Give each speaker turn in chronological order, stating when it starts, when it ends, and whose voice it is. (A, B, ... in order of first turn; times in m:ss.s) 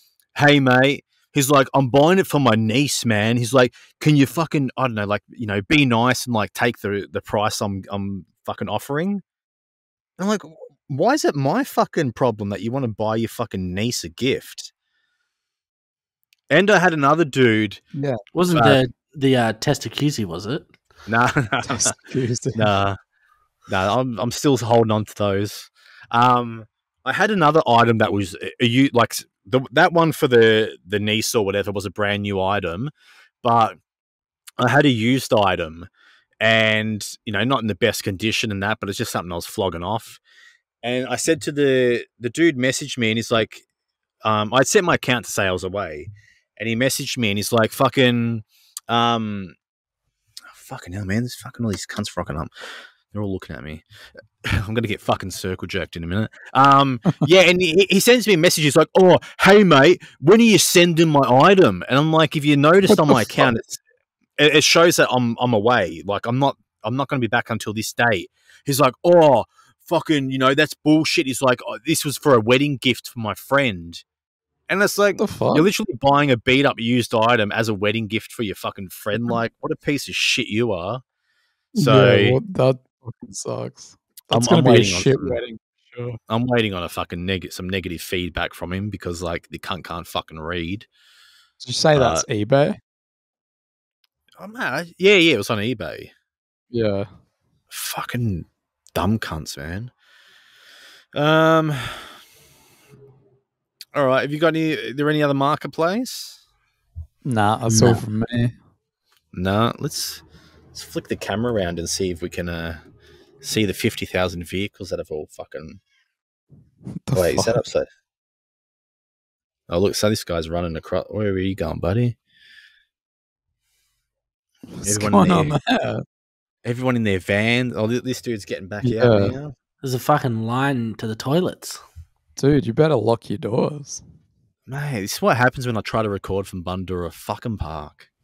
0:00.3-0:09.2 A
0:10.2-0:14.7 A
0:16.5-0:17.8 A
0:17.9-0:18.2 B
0:18.3-0:20.7 C
0:18.5-0:18.8 A
0:21.1-0:21.9 A
0:21.6-0:22.7 B
0:22.5-0:23.0 A
0:23.7-0:32.9 A
0:33.4-0:33.8 A
0:34.6-0:35.9 A
0:36.4-0:40.2 A
0:40.8-0:43.6 A
0:44.2-0:49.5 A
0:50.5-0:52.5 A
0:53.1-0:53.8 A
0:54.4-1:03.8 A
1:02.9-1:03.5 B
1:04.4-1:14.0 A
1:14.7-1:21.0 A
1:15.2-1:15.7 B
1:21.7-1:22.4 A
1:21.8-1:26.2 B
1:24.3-1:25.4 A
1:26.3-1:30.9 A
1:31.6-1:32.8 B
1:31.9-1:32.2 A
1:34.4-1:36.1 A
1:36.7-1:37.1 B
1:37.7-1:39.9 A
1:41.1-1:42.1 A
1:43.9-1:46.4 A
1:47.2-1:48.6 B
1:47.7-1:48.0 C
1:49.3-1:52.8 A
1:53.4-1:55.8 A
1:57.0-1:57.6 B
1:57.1-1:57.9 A
1:59.7-2:02.2 A
2:04.7-2:06.0 B
2:04.8-2:05.6 A
2:06.6-2:09.5 A
2:08.8-2:09.4 B
2:09.8-2:11.8 C
2:12.4-2:14.0 B
2:14.7-2:18.1 A